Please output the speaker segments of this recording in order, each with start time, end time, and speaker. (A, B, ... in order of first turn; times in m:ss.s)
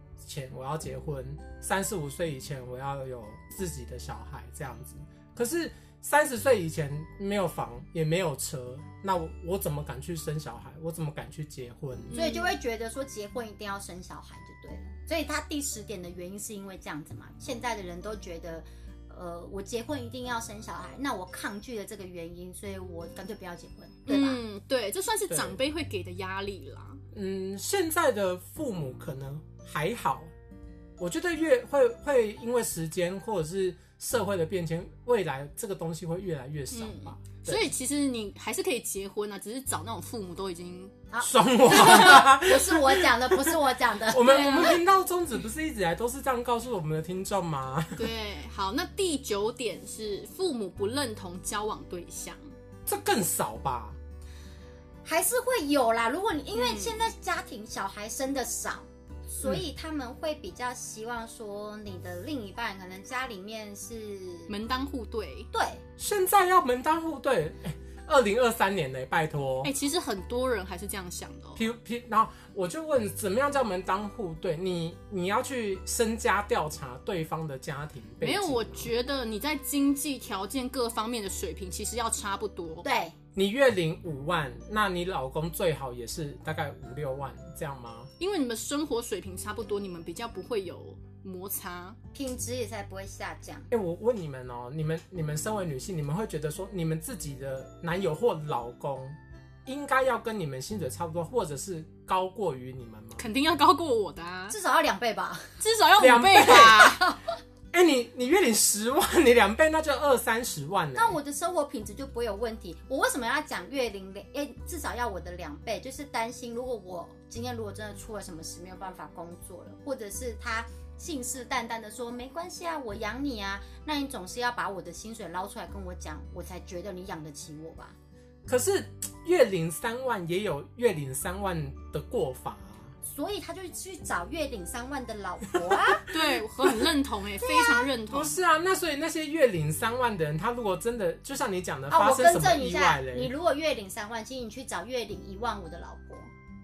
0:00.2-0:12.2 A
0:12.1-0:12.6 B
0:12.1-0:24.4 C
0:24.1-0:27.0 B
0:25.3-0:25.6 A
0:27.1-0:30.3 A
0:31.0-0:37.7 A
0:36.7-0:40.9 B
0:41.1-0:44.8 C
0:41.2-0:43.6 A
0:41.8-0:42.2 B
0:44.1-0:48.1 A
0:44.3-0:44.8 B
0:48.0-0:52.5 B
0:52.9-0:54.0 A
0:55.0-1:04.5 C
0:56.5-0:57.1 B
1:04.5-1:05.5 B
1:05.5-1:05.8 C
1:06.0-1:09.7 A
1:09.6-1:11.6 B
1:11.6-1:18.9 A
1:18.2-1:22.9 B
1:22.8-1:23.2 C
1:23.4-1:28.1 A
1:28.2-1:32.0 B
1:32.1-1:33.7 C
1:33.7-1:43.2 A
1:43.2-1:44.6 B
1:44.5-1:45.6 C
1:45.6-1:47.0 B
1:46.0-1:47.0 A
1:46.4-1:47.2 C
1:47.7-1:51.2 A
1:51.0-2:08.0 C
2:08.5-2:12.9 A
2:13.0-2:16.1 C
2:16.1-2:18.4 B
2:17.4-2:17.9 C
2:18.1-2:23.3 A
2:21.9-2:26.3 C